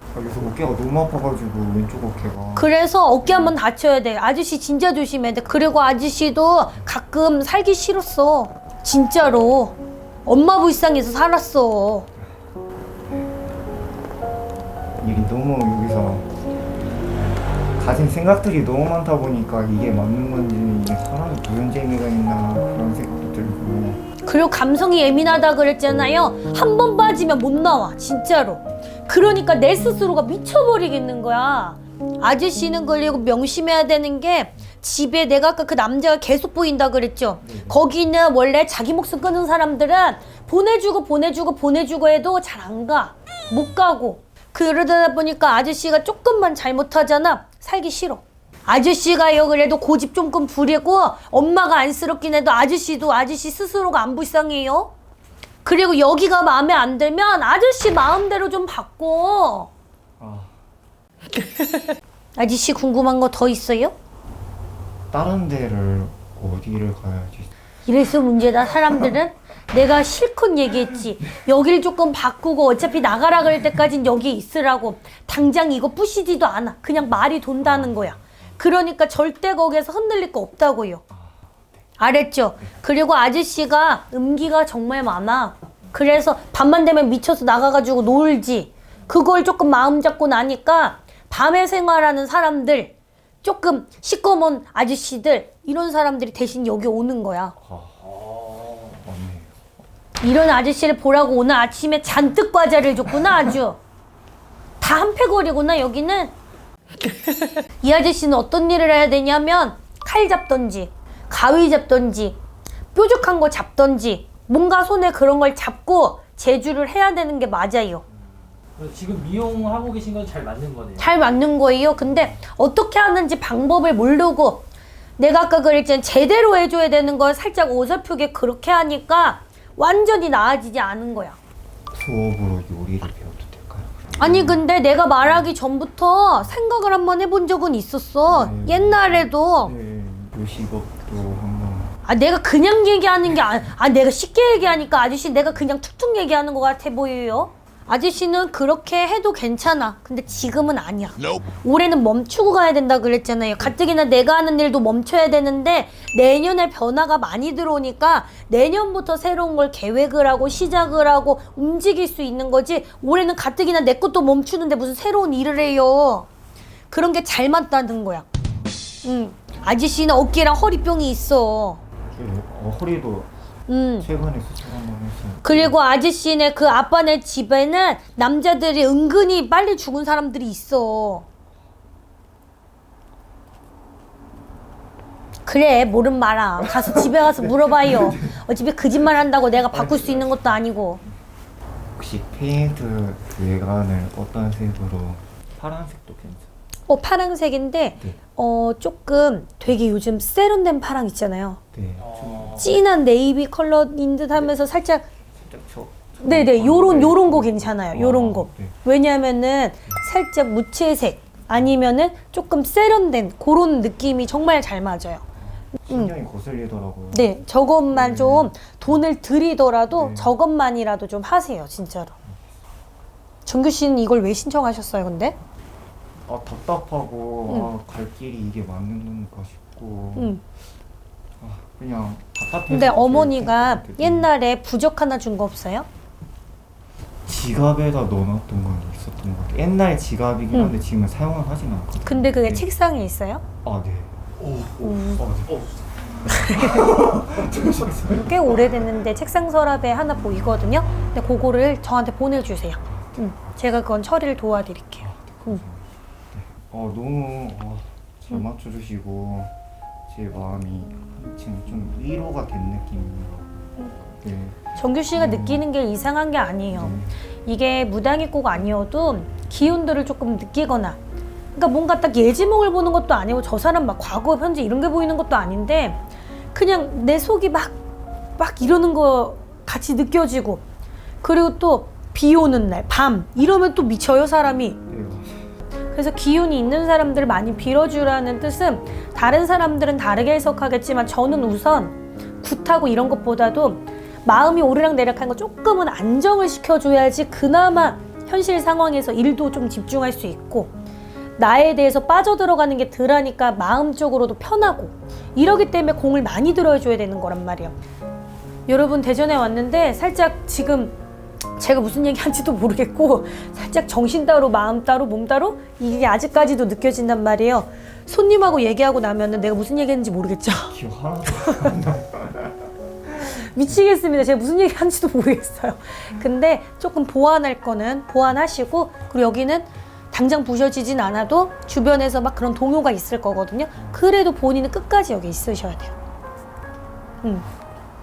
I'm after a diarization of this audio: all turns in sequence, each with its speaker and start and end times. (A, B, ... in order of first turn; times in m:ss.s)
0:00.1-0:03.6 A
0:02.6-0:12.1 B
0:13.1-0:13.4 A
0:15.0-0:16.3 A
0:17.8-0:24.0 A
0:24.2-0:54.9 B
0:37.4-0:37.8 A
0:55.6-0:59.7 B
1:00.2-1:00.5 A
1:01.4-1:03.9 B
1:05.1-1:07.5 A
1:07.9-1:21.0 B
1:17.6-1:18.2 A
1:21.1-1:21.5 A
1:22.0-1:37.6 B
1:37.6-1:38.1 A
1:38.3-1:38.8 C
1:38.7-1:39.6 A
1:40.2-1:43.8 B
1:44.8-1:46.3 B
1:47.0-1:52.4 B
1:52.9-1:58.0 B
1:58.8-2:01.1 C
2:01.0-2:04.7 B
2:05.2-2:11.4 B
2:11.9-2:14.6 A
2:14.2-2:19.7 B
2:18.3-2:22.0 A
2:22.0-2:46.3 B
2:46.9-2:48.3 B
2:49.0-2:51.8 B
2:52.2-2:53.3 A
2:53.7-2:54.1 B
2:54.0-2:55.8 A
2:55.4-3:01.3 B
3:05.5-3:11.0 B
3:06.8-3:08.4 A
3:09.5-3:10.7 A
3:12.0-3:16.5 A
3:16.9-3:21.6 B
3:21.7-3:22.7 A
3:22.0-3:22.6 C
3:22.6-3:25.0 B
3:25.3-3:28.8 A
3:26.2-3:35.2 B
3:35.4-3:38.6 A
3:35.8-3:36.1 B
3:37.1-3:42.2 B
3:39.9-3:40.4 A
3:43.5-3:45.4 B
3:46.3-3:50.4 A
3:50.2-3:50.4 B
3:51.4-3:54.3 A
3:52.7-3:55.9 B
3:57.3-4:02.7 A
4:02.0-4:03.4 B
4:03.6-4:04.2 A
4:04.8-4:05.2 B
4:05.0-4:08.8 A
4:06.3-4:06.9 B
4:08.1-4:15.6 B
4:12.9-4:13.6 A
4:15.0-4:19.5 A
4:20.1-4:25.6 A
4:24.8-4:31.0 B
4:26.7-4:27.2 A
4:31.6-4:36.0 B
4:36.5-4:37.8 B
4:38.4-4:40.6 B
4:41.2-4:44.8 B
4:44.9-4:45.5 A
4:45.9-5:00.7 B
5:01.4-5:07.8 B
5:08.7-5:11.0 B
5:11.6-5:20.8 B
5:20.7-5:22.7 A
5:21.3-5:21.7 B
5:23.2-5:35.9 B
5:33.8-5:34.0 A
5:37.2-5:37.5 B